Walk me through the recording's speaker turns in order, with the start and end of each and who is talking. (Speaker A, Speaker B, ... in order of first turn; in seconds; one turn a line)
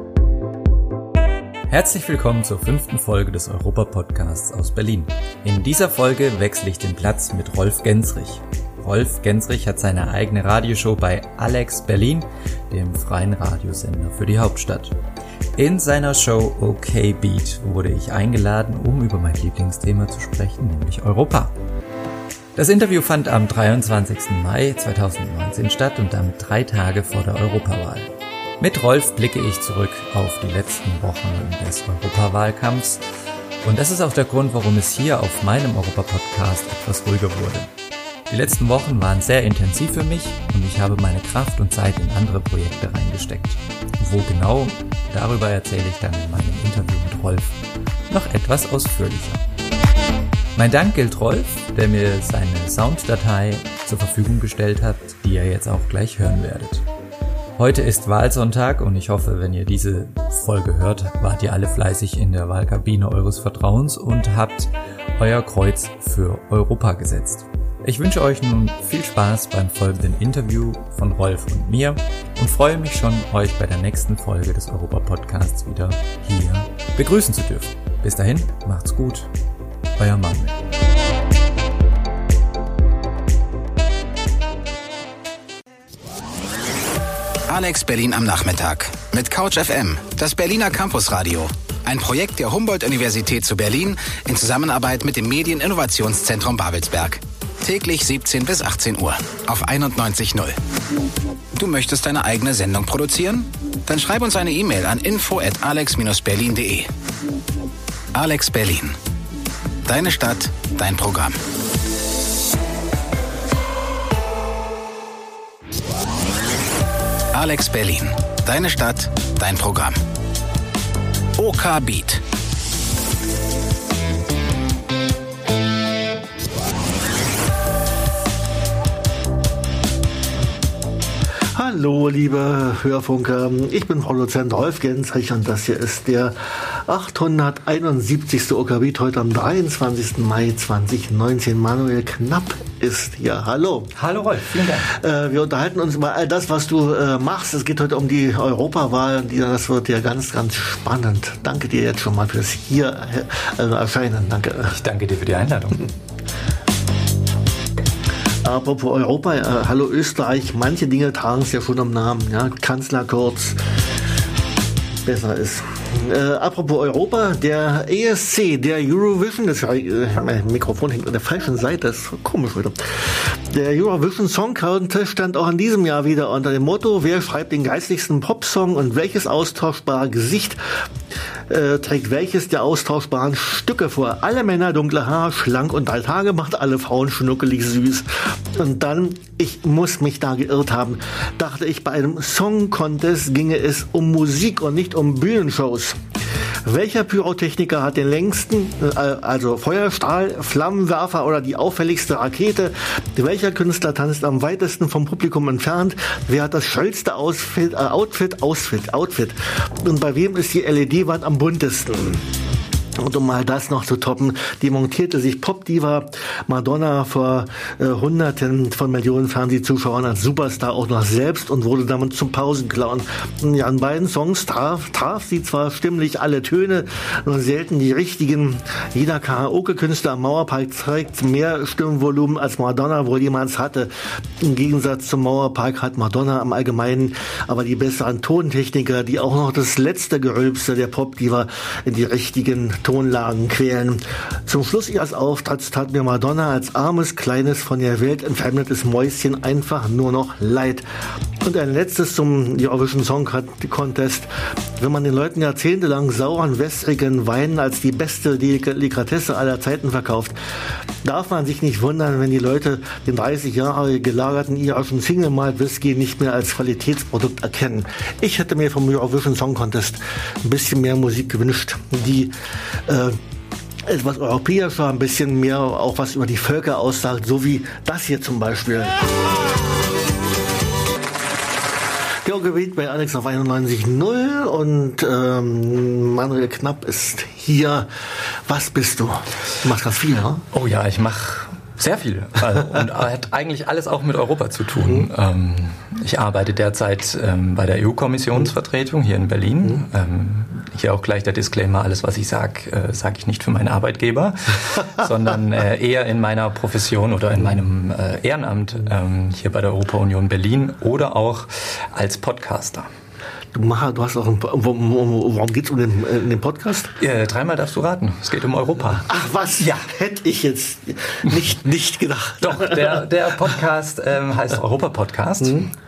Speaker A: 1.7-14.9
Speaker A: 15.6-21.5
Speaker A: 22.6-33.0
Speaker A: 33.6-37.7
Speaker A: 38.3-47.6
Speaker A: 48.1-49.4
Speaker A: 50.5-56.8
Speaker A: 57.6-79.3
Speaker A: 80.0-80.5
Speaker B: 87.5-100.6
Speaker B: 101.5-106.9
Speaker B: 108.1-108.9
Speaker B: 109.8-111.4
Speaker B: 117.3-120.0
Speaker B: 121.4-122.2
Speaker C: 131.5-143.9
Speaker A: 143.9-144.9
Speaker C: 144.9-154.8
Speaker A: 154.7-155.9
Speaker C: 158.4-163.7
Speaker C: 165.0-180.9
Speaker C: 181.5-196.0
Speaker C: 196.6-212.3
Speaker C: 212.9-250.8
Speaker C: 251.4-260.4
Speaker C: 261.0-273.2
Speaker C: 273.8-279.1
Speaker C: 282.2-290.4
Speaker A: 290.5-312.9
Speaker C: 313.5-316.9
Speaker A: 317.0-319.9
Speaker C: 319.0-323.0
Speaker A: 322.4-325.7
Speaker C: 325.4-325.7